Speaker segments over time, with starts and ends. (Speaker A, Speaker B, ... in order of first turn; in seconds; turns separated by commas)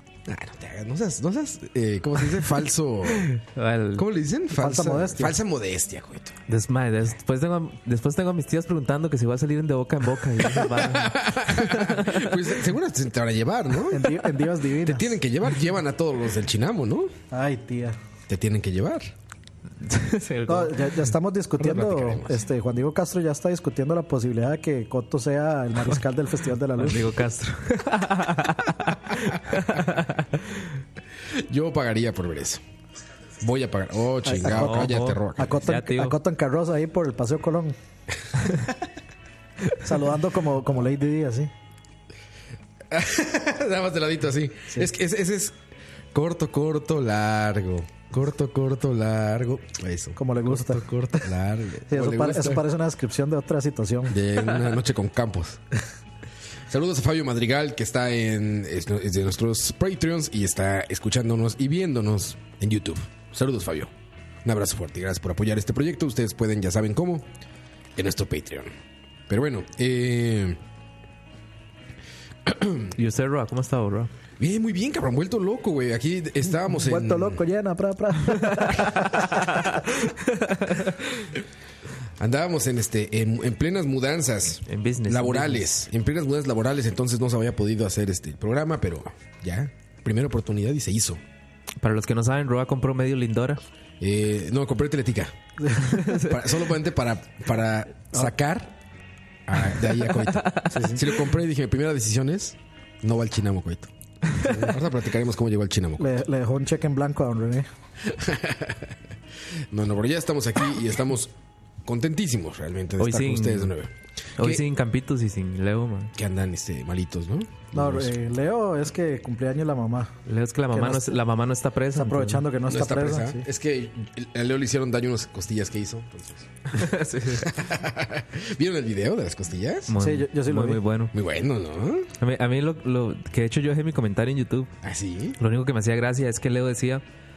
Speaker A: 0.2-3.3, Speaker B: 3.1-4.0, Speaker A: 4.0-6.4, Speaker C: 4.5-5.4, Speaker B: 6.5-12.5, Speaker A: 10.4-17.1, Speaker C: 13.9-15.2, Speaker C: 17.3-18.0, Speaker A: 18.3-19.1, Speaker B: 19.8-21.0, Speaker C: 20.5-27.2, Speaker A: 21.6-22.4, Speaker B: 26.8-30.7, Speaker A: 31.3-32.6, Speaker A: 33.4-35.6, Speaker C: 34.2-37.7, Speaker B: 34.5-36.2, Speaker C: 39.7-41.5, Speaker A: 42.9-45.6, Speaker A: 46.1-52.6, Speaker C: 50.1-50.9, Speaker C: 51.9-54.2, Speaker A: 54.1-55.6, Speaker A: 56.7-63.9, Speaker A: 64.4-67.3, Speaker A: 67.9-68.7, Speaker A: 69.3-70.6, Speaker A: 72.5-72.9, Speaker B: 72.9-74.1, Speaker A: 74.4-77.4, Speaker C: 76.7-79.6, Speaker B: 80.0-81.0, Speaker A: 82.2-91.2, Speaker B: 84.7-85.6, Speaker B: 91.8-93.6, Speaker A: 94.0-95.3, Speaker C: 95.6-95.9, Speaker B: 95.8-96.6, Speaker A: 96.1-98.7, Speaker A: 99.5-106.1, Speaker B: 100.0-100.9, Speaker C: 100.7-101.0, Speaker C: 106.0-107.7, Speaker A: 108.0-109.0, Speaker A: 109.5-111.3, Speaker A: 111.8-114.6, Speaker B: 113.0-113.7, Speaker B: 114.4-116.1, Speaker A: 116.1-118.1, Speaker C: 117.7-120.1, Speaker B: 120.2-122.5, Speaker C: 120.7-121.2, Speaker C: 121.9-123.5, Speaker A: 122.7-126.8, Speaker B: 126.7-127.5, Speaker A: 127.4-129.9, Speaker B: 129.9-131.1, Speaker C: 130.0-130.8, Speaker A: 131.1-132.1, Speaker B: 132.2-134.7, Speaker A: 134.8-135.4, Speaker B: 135.4-137.0